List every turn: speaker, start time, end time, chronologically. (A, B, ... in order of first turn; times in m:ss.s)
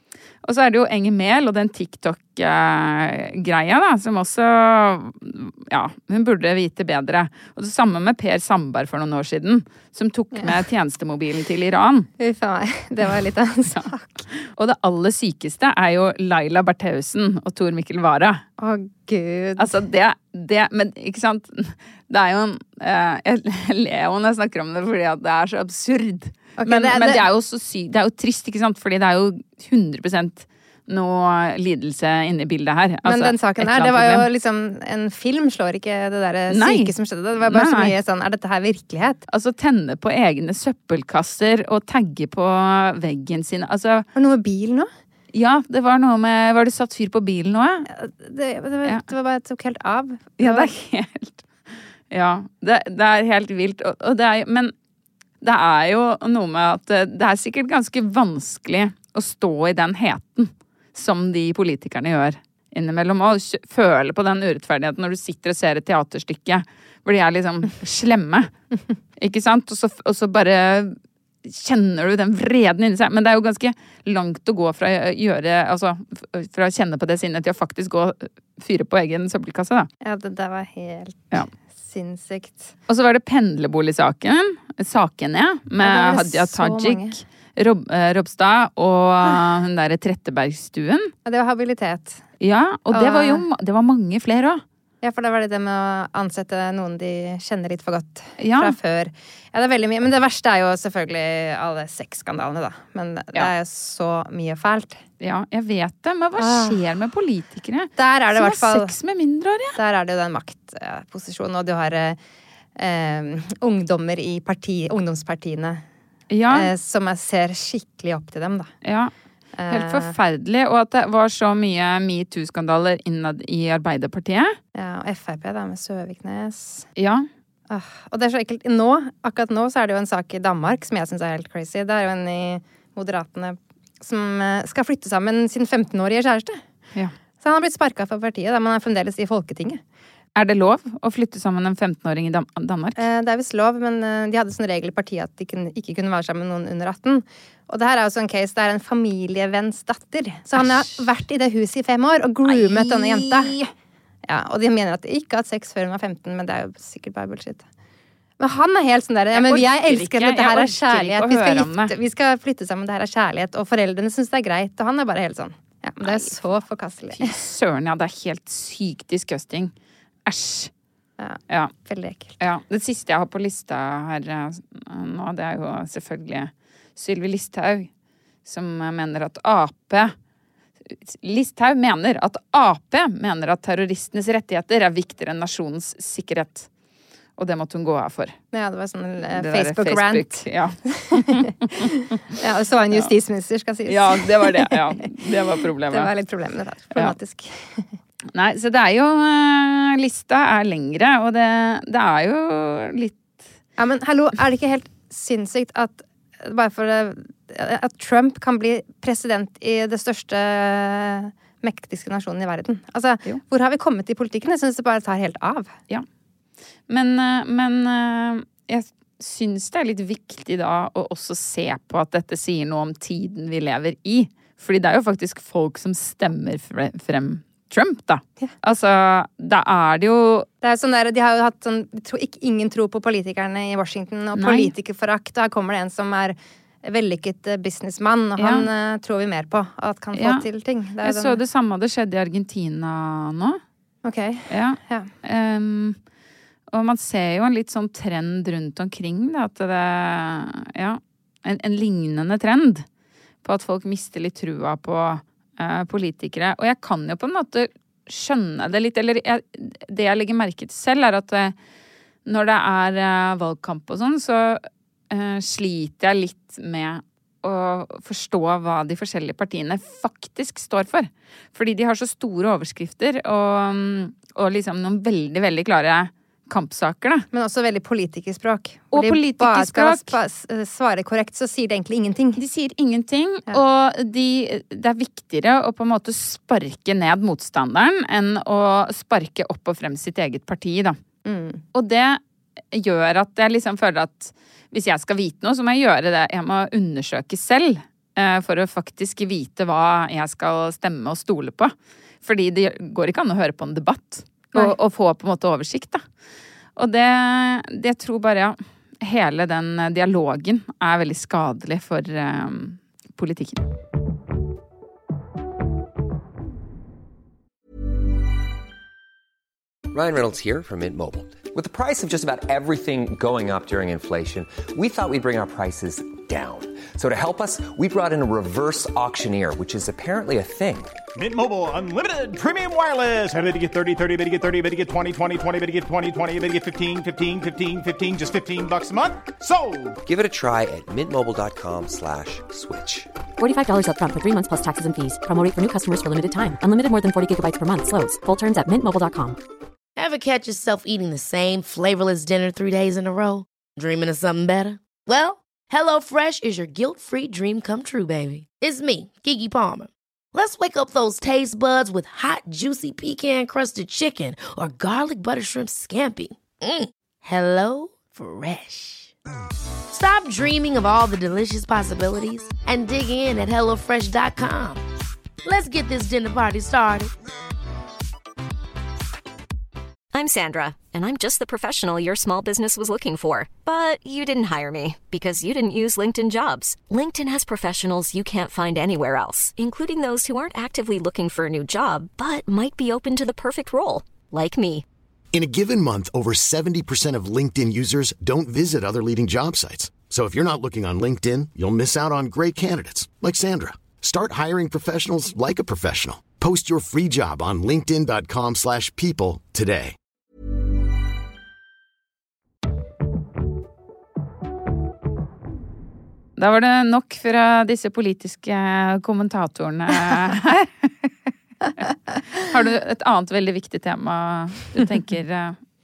0:00.4-0:12.1 A
0:12.2-0:14.3 B
0:14.4-0:18.4 A
0:18.6-0:19.7 B
0:19.6-0:34.3 A
0:26.6-0:27.2 B
0:33.0-0:39.2 B
0:36.5-0:37.9 A
0:39.3-0:44.1 A
0:44.2-0:44.9 B
0:45.3-0:47.9 A
0:47.9-0:50.7 B
0:50.4-0:51.4 A
0:52.1-0:54.7 A
0:55.4-1:08.5 A
1:09.2-1:19.9 A
1:20.0-1:22.7 B
1:22.9-1:31.1 A
1:25.8-1:27.2 B
1:31.2-1:32.2 B
1:32.4-1:34.6 A
1:32.9-1:33.4 B
1:35.0-1:45.0 B
1:38.4-1:38.8 A
1:45.2-1:49.8 A
1:46.4-1:46.8 B
1:48.0-1:49.0 B
1:49.8-1:52.2 B
1:52.8-1:55.8 B
1:56.3-1:56.7 A
1:56.5-1:58.7 B
1:58.8-1:59.1 A
1:59.6-2:00.1 B
1:59.7-2:04.6 A
2:04.8-2:06.9 B
2:07.0-2:07.3 A
2:07.7-2:16.6 B
2:17.4-2:19.8 B
2:20.4-2:23.0 A
2:23.0-2:33.5 B
2:30.6-2:30.9 A
2:32.4-2:33.7 A
2:34.3-2:37.6 B
2:38.4-2:47.3 B
2:39.3-2:41.9 A
2:46.0-2:46.4 A
2:47.2-2:49.7 A
2:50.3-2:50.7 A
2:51.2-2:52.4 B
2:52.4-2:57.9 A
2:58.4-3:00.1 A
3:00.9-3:06.7 A
3:07.4-3:08.4 A
3:08.5-3:14.8 B
3:09.3-3:11.8 A
3:13.9-3:16.1 A
3:15.9-3:17.8 B
3:18.3-3:23.2 A
3:23.8-3:35.7 B
3:36.9-3:50.5 A
3:50.6-4:01.4 B
3:54.4-3:54.7 A
3:58.4-3:58.7 A
4:00.1-4:00.5 A
4:01.0-4:03.6 A
4:04.0-4:05.1 B
4:04.5-4:06.0 A
4:06.7-4:12.8 A
4:13.4-4:21.6 A
4:22.2-4:37.3 A
4:37.3-4:42.4 B
4:38.9-4:40.2 A
4:42.4-4:51.0 A
4:51.2-4:51.6 B
4:51.7-4:52.2 A
4:52.7-5:06.0 A
5:06.8-5:13.6 A
5:19.9-5:30.9 C
5:31.2-5:40.0 D
5:40.0-5:43.1 C
5:43.4-5:49.4 E
5:50.0-6:09.1 F
6:09.9-6:14.8 F
6:15.4-6:17.1 F
6:20.1-6:34.8 G
6:35.3-6:50.0 H
6:56.4-7:01.1 A
7:02.4-7:05.6 A